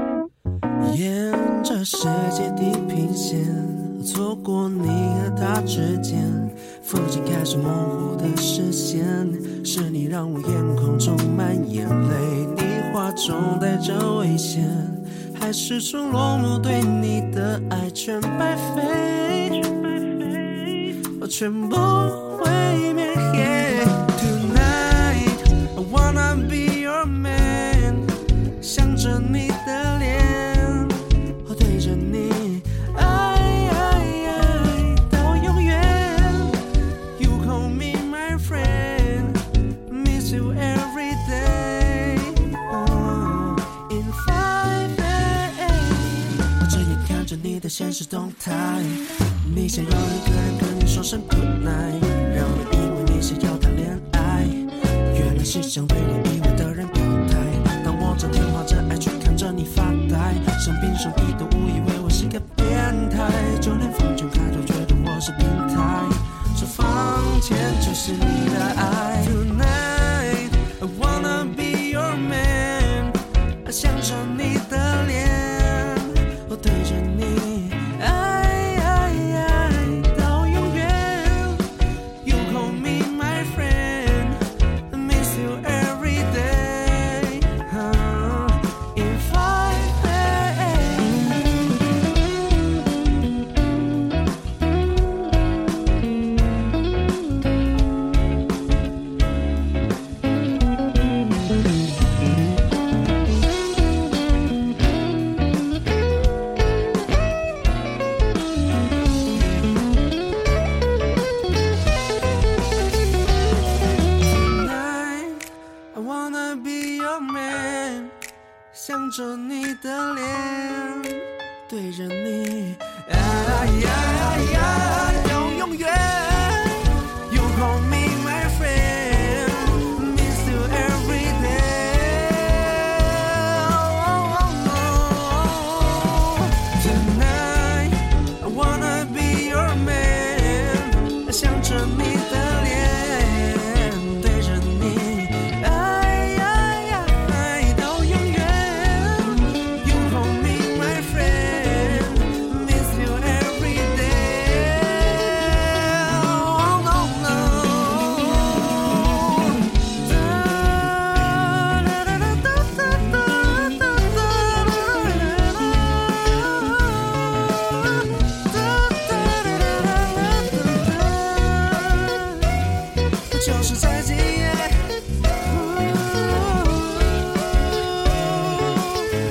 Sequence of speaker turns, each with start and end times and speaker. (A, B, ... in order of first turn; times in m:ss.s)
0:00.8-0:36.6 A
0:37.1-1:21.6 A
1:22.2-1:31.4 A
1:54.1-1:58.1 A
1:58.7-2:52.4 A
2:53.2-2:57.3 A
2:58.2-2:59.1 A